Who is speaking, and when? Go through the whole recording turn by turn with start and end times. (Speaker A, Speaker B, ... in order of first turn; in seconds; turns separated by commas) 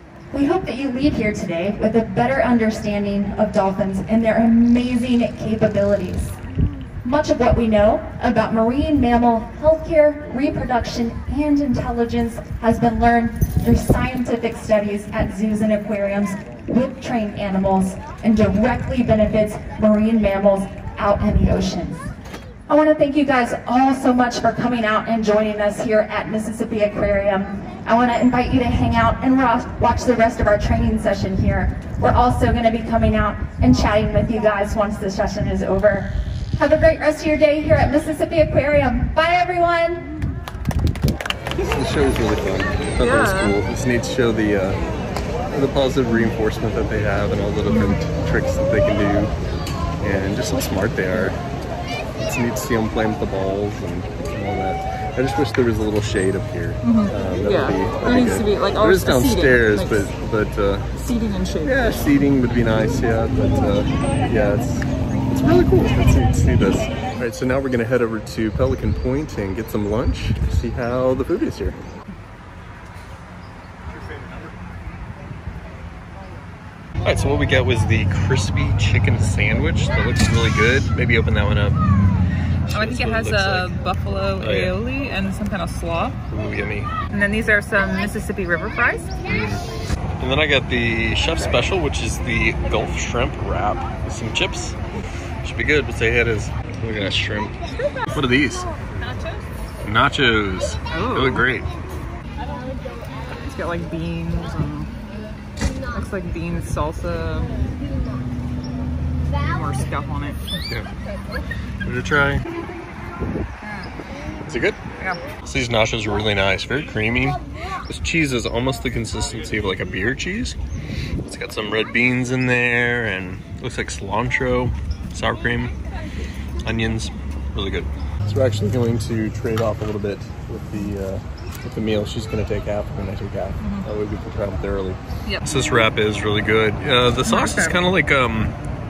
Speaker A: 0.3-6.3, Speaker A: 7.0-22.1, Speaker A: 22.7-40.1, Speaker B: 41.6-44.8, Speaker C: 43.0-43.6, Speaker B: 45.5-49.3, Speaker C: 47.7-48.0, Speaker B: 50.0-51.4, Speaker B: 52.2-60.9, Speaker C: 56.8-60.1, Speaker C: 60.9-61.9, Speaker B: 61.6-71.8, Speaker B: 77.0-81.8, Speaker B: 82.7-83.7, Speaker C: 82.7-86.2, Speaker B: 84.4-84.8, Speaker B: 86.3-86.9, Speaker C: 87.1-89.1, Speaker B: 89.2-89.6, Speaker B: 90.2-94.8, Speaker B: 95.4-98.7, Speaker C: 99.0-99.3, Speaker B: 99.8-101.7, Speaker C: 100.9-101.5, Speaker C: 103.3-104.9, Speaker C: 105.8-107.5, Speaker C: 109.3-110.6, Speaker B: 111.8-112.4, Speaker C: 113.6-113.9, Speaker B: 114.4-114.8, Speaker B: 115.4-120.6, Speaker B: 121.2-125.7, Speaker B: 126.6-138.5, Speaker C: 137.2-137.8